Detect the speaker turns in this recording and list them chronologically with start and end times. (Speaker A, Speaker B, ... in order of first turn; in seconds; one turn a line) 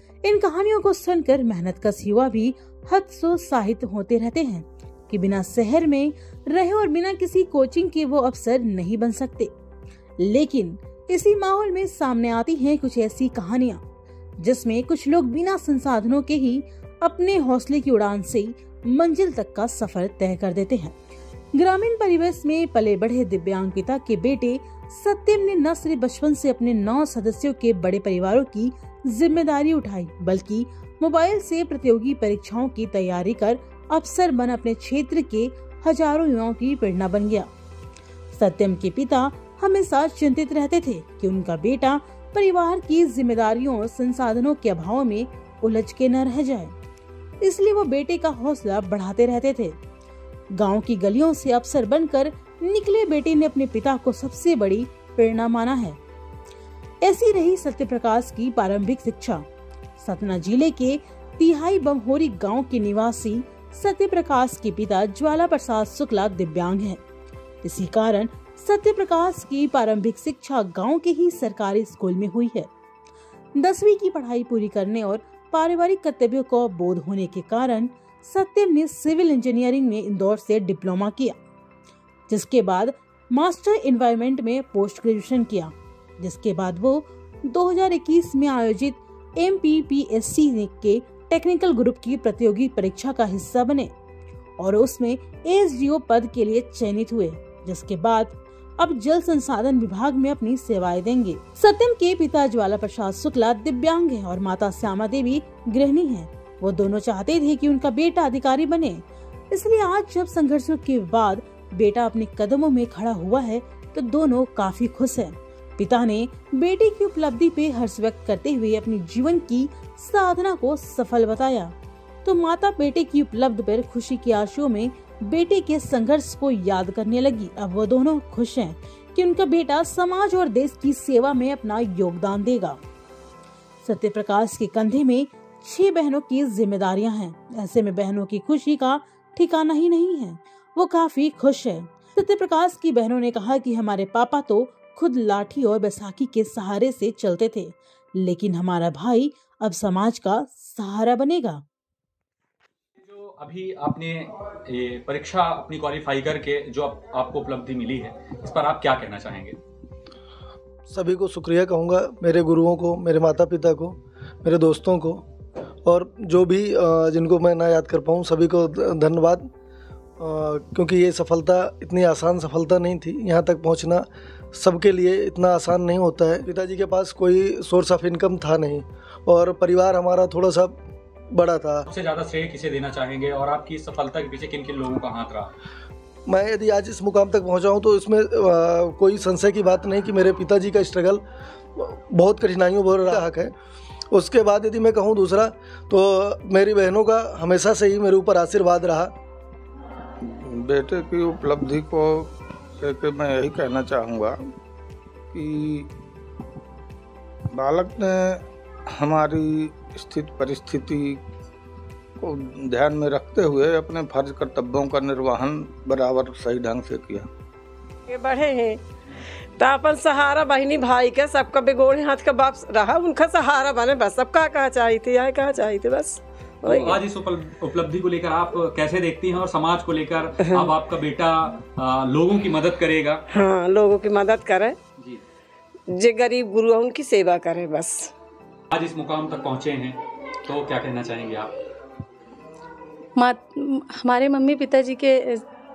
Speaker A: 0.2-9.5
Speaker A: 10.2-13.8
Speaker A: 14.4-21.0
Speaker A: 21.6-37.5
Speaker A: 38.3-46.7
Speaker A: 47.4-49.8
Speaker A: 50.5-56.0
Speaker A: 57.0-59.5
Speaker A: 60.0-67.0
Speaker A: 67.6-72.7
Speaker A: 73.5-81.3
Speaker A: 82.3-93.9
Speaker A: 94.6-121.7
Speaker A: 122.2-132.8
Speaker A: 133.8-151.6
Speaker B: 153.0-159.6
Speaker C: 160.9-165.2
Speaker C: 165.8-169.5
Speaker C: 170.2-180.8
Speaker C: 181.3-181.9
Speaker B: 181.9-185.5
Speaker C: 186.3-191.2
Speaker C: 191.8-193.5
Speaker C: 194.1-199.1
Speaker D: 200.2-204.4
Speaker D: 205.3-205.9
Speaker D: 207.5-211.2
Speaker D: 212.2-217.3
Speaker E: 218.1-218.8
Speaker E: 219.6-227.0
Speaker B: 226.6-233.2
Speaker E: 233.3-234.8
Speaker E: 235.9-238.1
Speaker B: 238.7-241.5
Speaker F: 243.2-245.4